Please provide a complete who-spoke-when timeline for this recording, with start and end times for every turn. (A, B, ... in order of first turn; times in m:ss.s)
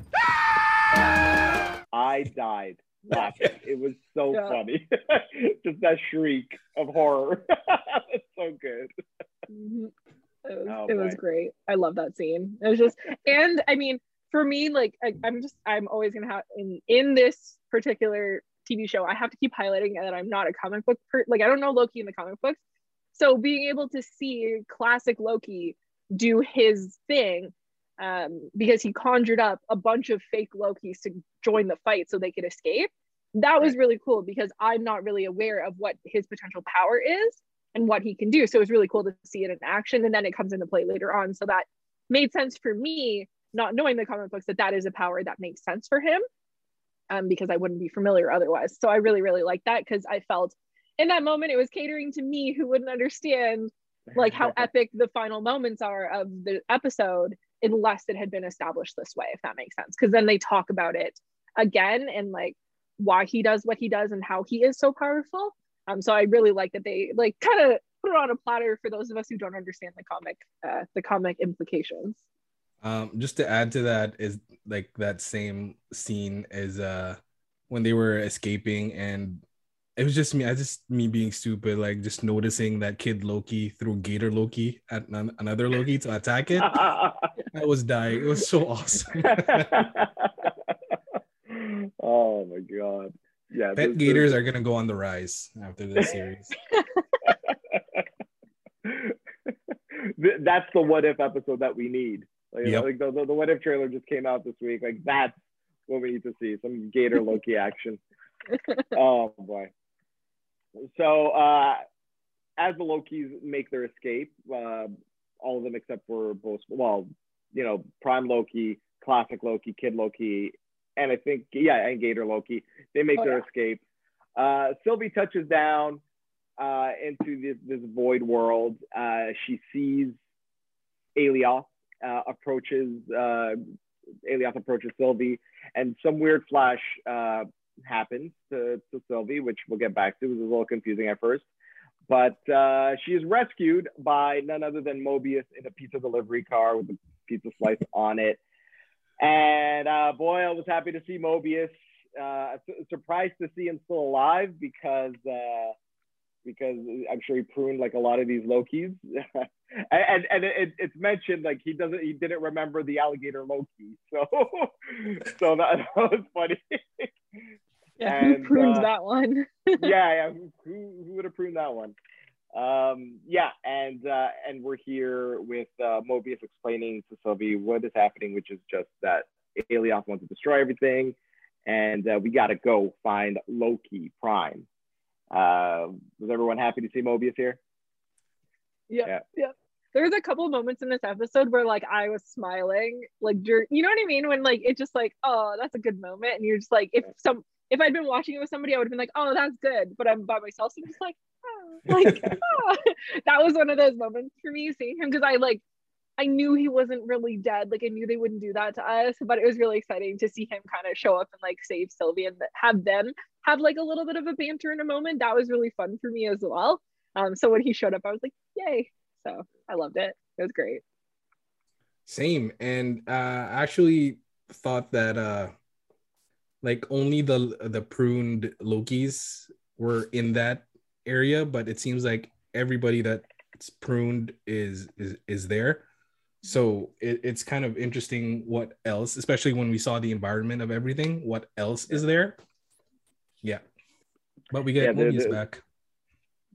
0:01.9-0:08.9 A
0:04.3-0:04.6 B
0:09.5-0:09.9 B
0:10.4-0:22.6 B
0:10.7-0:11.2 A
0:23.1-0:46.2 B
0:47.1-1:12.2 B
0:54.1-0:54.5 A
1:12.8-1:17.2 C
1:17.7-1:19.4 C
1:20.0-1:26.9 C
1:26.6-1:27.3 A
1:27.5-1:29.7 C
1:29.2-1:30.9 A
1:31.5-1:34.4 A
1:33.8-1:36.6 C
1:36.7-1:37.0 B
1:37.2-1:38.0 A
1:38.8-1:45.4 A
1:45.9-1:48.0 A
1:48.9-1:49.7 A
1:50.8-1:51.8 A
1:52.6-2:03.8 A
2:04.4-2:06.0 A
2:06.6-2:10.2 A
2:11.2-2:13.6 A
2:14.2-2:21.5 A
2:22.1-2:28.4 A
2:29.2-2:35.7 A
2:36.4-2:47.1 A
2:48.0-2:49.9 B
2:48.0-2:48.9 A
2:49.8-2:52.0 A
2:52.5-3:01.2 A
3:01.7-3:04.7 A
3:05.3-3:07.6 A
3:08.9-3:25.6 B
3:22.0-3:22.4 C
3:26.2-3:40.8 B
3:42.1-3:45.5 C
3:46.6-3:55.8 C
3:56.4-4:02.4 C
4:04.5-4:05.6 C
4:04.8-4:05.4 A